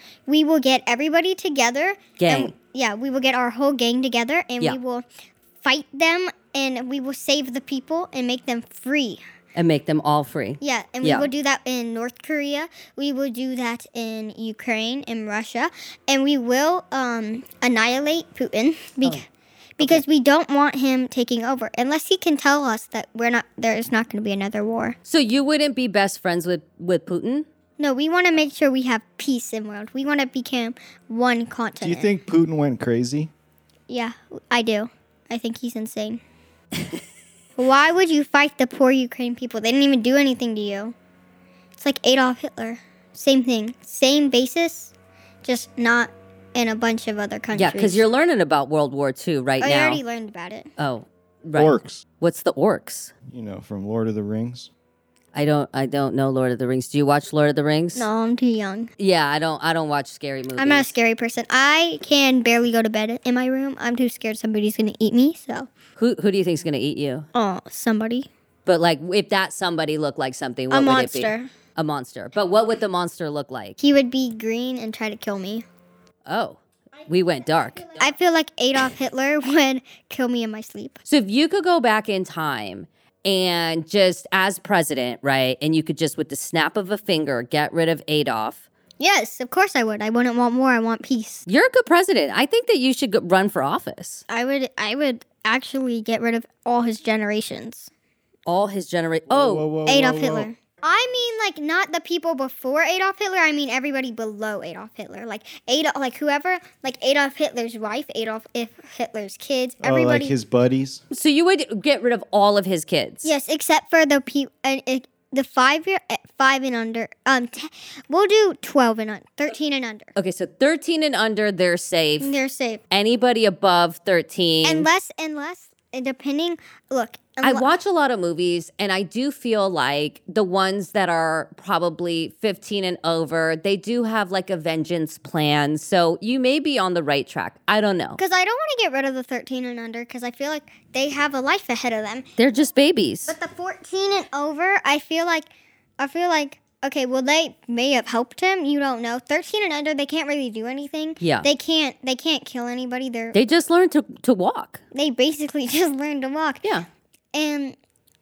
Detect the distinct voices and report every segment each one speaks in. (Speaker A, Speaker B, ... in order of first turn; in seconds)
Speaker A: 0.3-5.0, 5.6-9.2, 10.6-19.2, 19.8-24.9, 27.8-32.1, 33.9-36.2, 37.6-40.9, 41.8-44.9, 45.4-48.0, 49.6-50.7, 58.0-58.9, 60.6-65.7, 67.3-68.3, 70.7-71.5, 73.8-75.6, 78.0-81.0, 89.0-91.5, 94.3-97.9, 99.9-110.3, 113.2-120.1, 122.2-122.8, 124.6-127.7, 138.2-142.3, 143.3-153.4, 154.9-156.7, 157.3-157.8
Speaker B: 2.2-2.5, 9.5-11.3, 25.1-27.4, 47.5-50.0, 50.8-53.1, 55.3-58.1, 59.0-60.9, 66.0-67.3, 68.7-73.8, 76.3-78.1, 81.0-88.6, 91.5-94.2, 98.5-99.7, 111.1-113.3, 120.2-122.3, 122.9-124.9, 127.4-138.2, 142.4-143.3, 151.2-151.5, 153.3-154.8
Speaker C: 31.8-33.3, 51.5-52.0, 53.3-54.7, 99.3-100.5, 109.8-111.0